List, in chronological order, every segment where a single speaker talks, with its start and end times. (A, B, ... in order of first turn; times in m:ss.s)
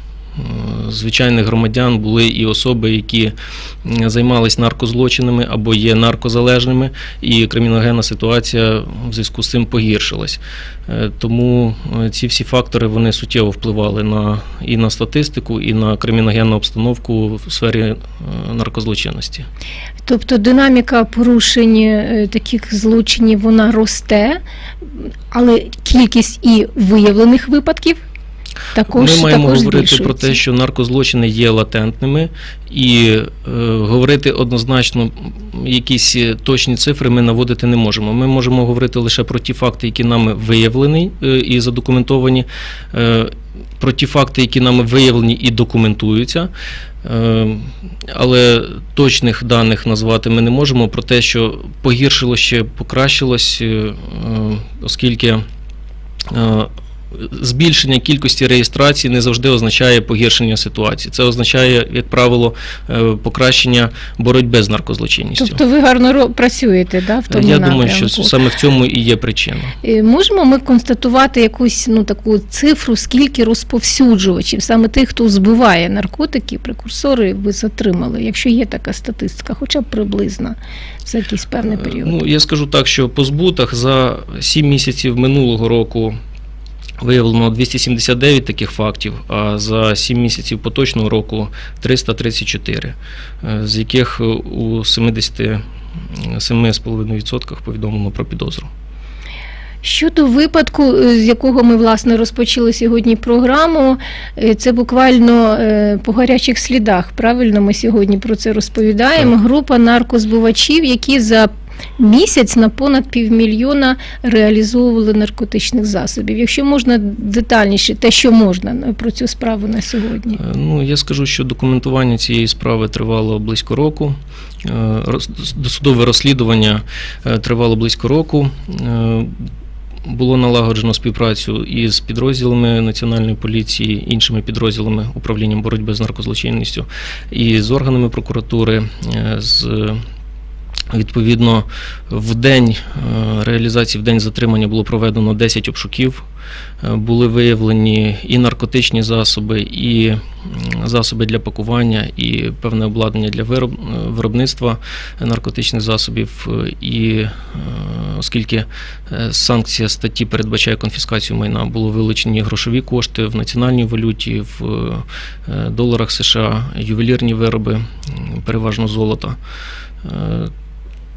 0:00.4-0:19.5 A
0:20.0-0:28.0 B
0:28.7-0:30.4 B
0:28.9-0:46.5 A
0:47.0-0:55.4 A
0:56.3-1:05.6 A
1:05.4-1:08.3 B
1:07.3-1:09.8 A
1:09.8-1:22.2 B
1:21.7-1:26.2 A
1:27.0-1:38.7 A
1:39.8-2:00.4 B
2:00.4-2:09.4 A
2:10.1-2:20.0 A
2:20.9-2:26.2 A
2:26.8-2:49.4 A
2:50.0-2:50.5 A